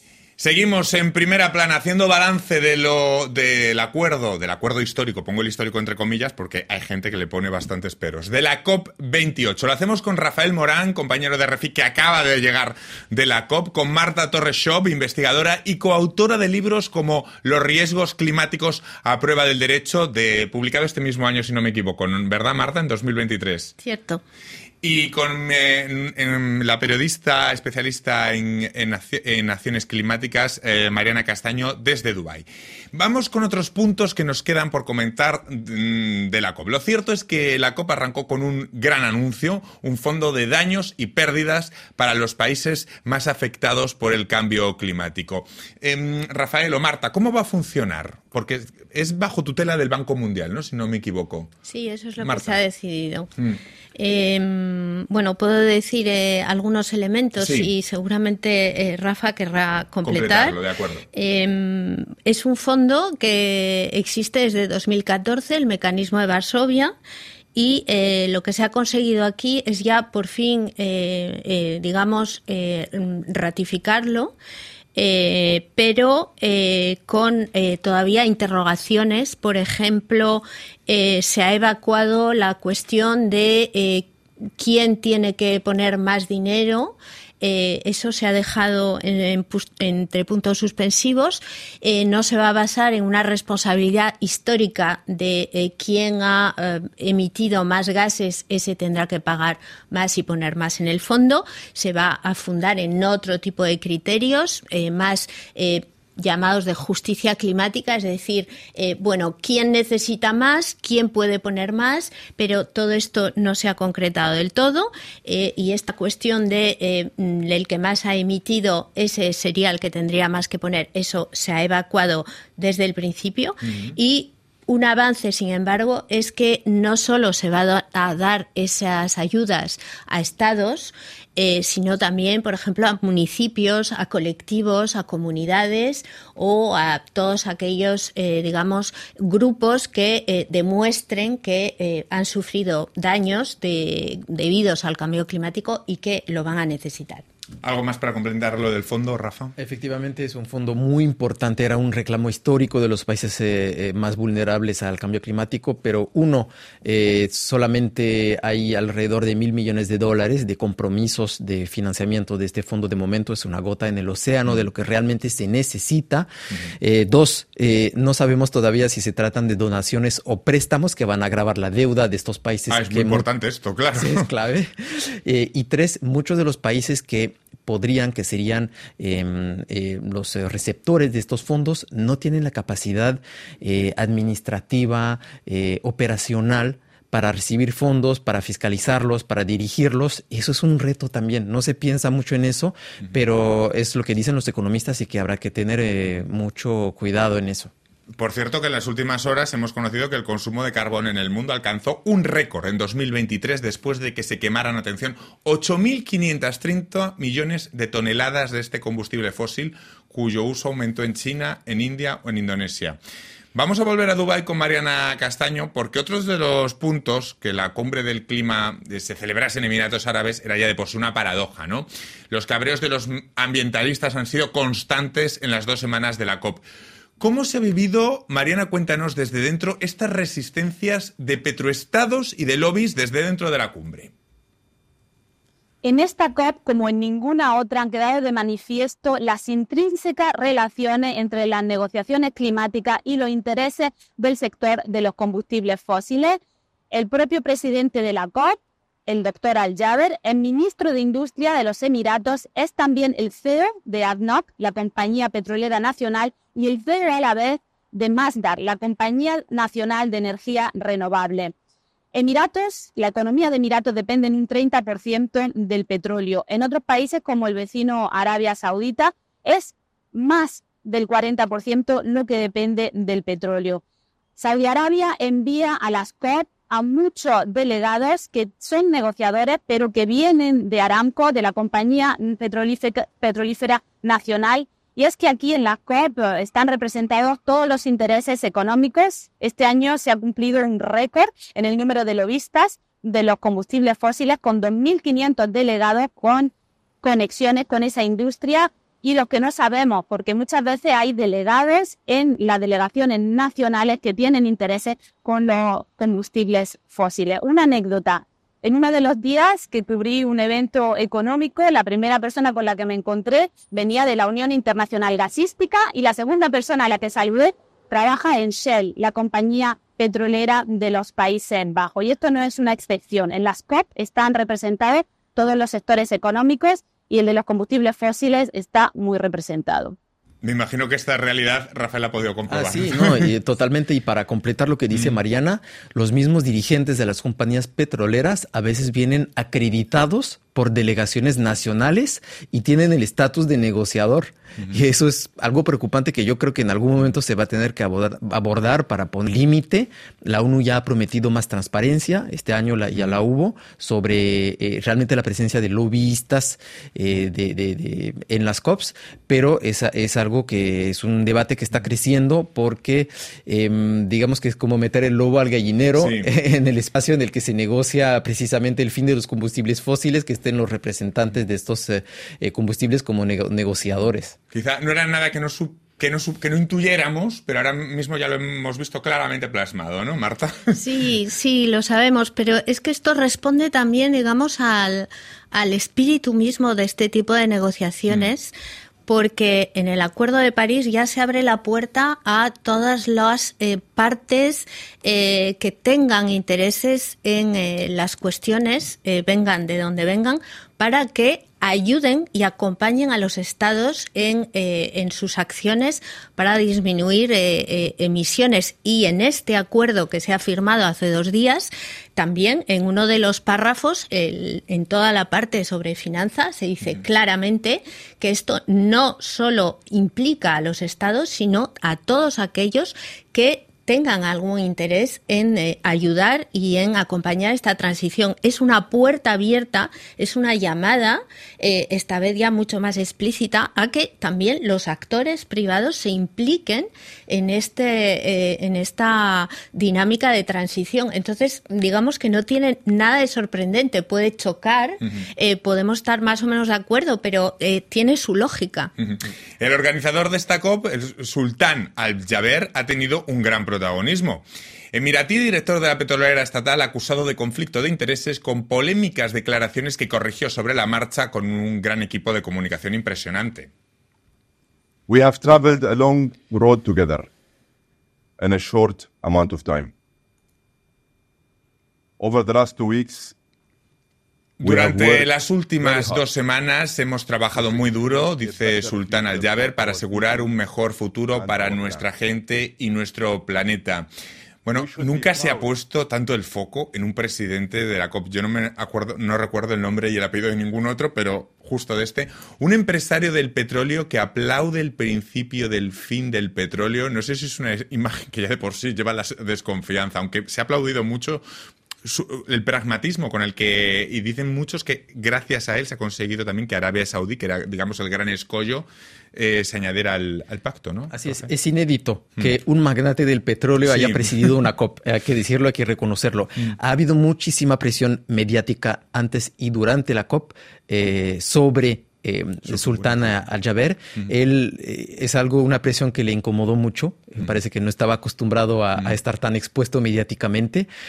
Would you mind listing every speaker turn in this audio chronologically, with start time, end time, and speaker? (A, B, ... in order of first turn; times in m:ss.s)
0:00.4-0:23.7 A
0:23.8-0:24.2 B
0:24.8-0:51.5 A
0:51.7-0:53.3 B
0:52.2-0:52.6 A
0:54.0-1:00.6 B
0:57.4-0:57.7 A
1:00.0-1:01.0 A
1:01.1-1:06.9 B
1:07.6-1:14.4 B
1:15.0-1:24.1 B
1:24.6-2:27.2 B
2:03.7-2:04.0 A
2:27.6-2:29.5 A
2:29.6-2:46.3 C
2:46.8-2:53.3 C
2:52.7-2:54.3 A
2:53.9-3:17.7 C
3:18.2-3:33.0 A
3:33.6-3:46.6 A
3:47.2-3:54.1 A
3:55.8-4:06.4 D
4:06.9-4:21.5 D
4:22.1-4:33.8 D
4:34.4-5:30.0 D
5:30.4-5:33.3 A
5:32.5-6:14.4 C
5:34.9-5:35.2 A
5:53.0-5:53.2 A
6:06.0-6:06.3 A
6:14.5-6:20.7 A
6:20.7-6:28.5 B
6:29.1-7:28.9 B
7:29.0-7:43.7 A
7:45.1-7:47.3 E
7:48.4-7:49.9 E
7:52.2-7:53.4 E
7:54.6-8:04.1 A
7:54.6-7:56.2 E
7:57.5-8:00.6 E
8:01.3-8:02.1 E
8:04.6-8:21.4 A
8:04.7-8:05.7 E
8:22.0-8:31.5 A
8:31.1-8:50.9 C
8:33.9-8:34.5 A
8:42.7-8:43.4 A